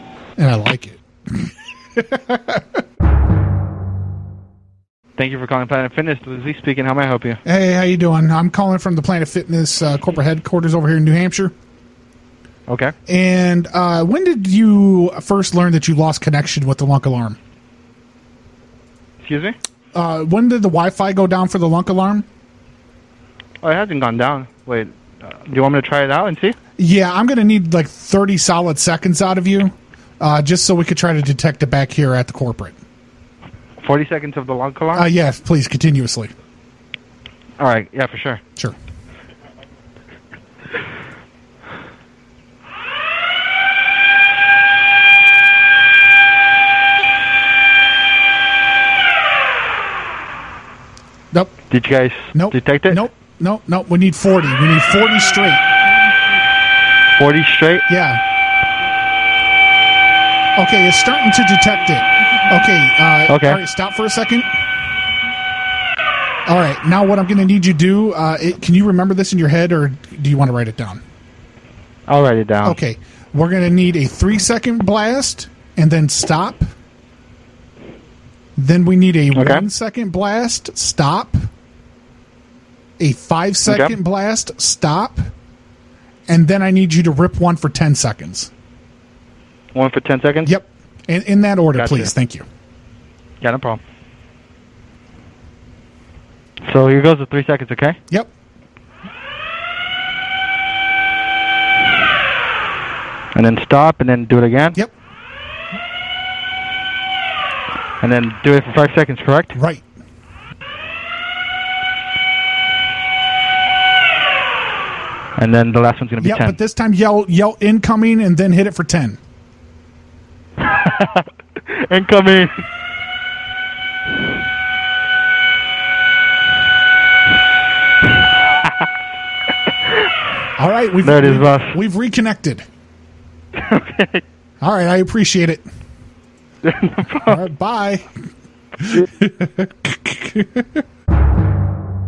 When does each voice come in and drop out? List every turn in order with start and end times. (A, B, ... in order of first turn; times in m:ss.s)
0:00.4-0:02.8 A
0:05.2-0:07.4 B
0:07.4-0:11.5 A
0:12.7-0:12.9 B
0:13.1-0:17.4 A
0:19.2-0:19.6 B
0:19.9-0:22.3 A
0:23.6-0:26.6 B
0:26.8-0:32.8 A
0:33.8-0:35.1 B
0:34.9-0:36.3 A
0:37.6-0:38.4 B
0:51.3-0:51.6 A
0:51.7-0:53.0 B
0:52.3-0:55.6 A
0:57.2-0:57.8 B
0:57.9-0:58.2 A
1:00.6-1:04.6 A
1:03.3-1:03.6 B
1:06.5-1:11.0 A
1:12.1-1:12.8 B
1:12.6-1:16.7 A
1:18.6-1:21.5 A
1:19.4-1:19.6 B
1:23.0-1:25.3 A
1:23.6-1:24.0 B
1:26.3-1:28.5 A
1:29.7-1:30.5 B
1:30.5-1:32.4 A
1:31.7-1:32.1 B
1:33.4-1:33.8 B
1:36.6-1:38.0 B
1:43.4-1:44.8 B
1:48.0-1:49.5 B
1:49.5-1:49.9 A
1:55.4-1:56.6 B
1:56.2-1:59.2 A
2:00.7-2:02.5 B
2:10.6-2:12.7 A
2:11.0-2:11.8 B
2:13.6-2:14.2 B
2:14.6-2:15.6 A
2:16.6-2:17.4 B
2:17.2-2:18.1 A
2:18.8-2:20.8 A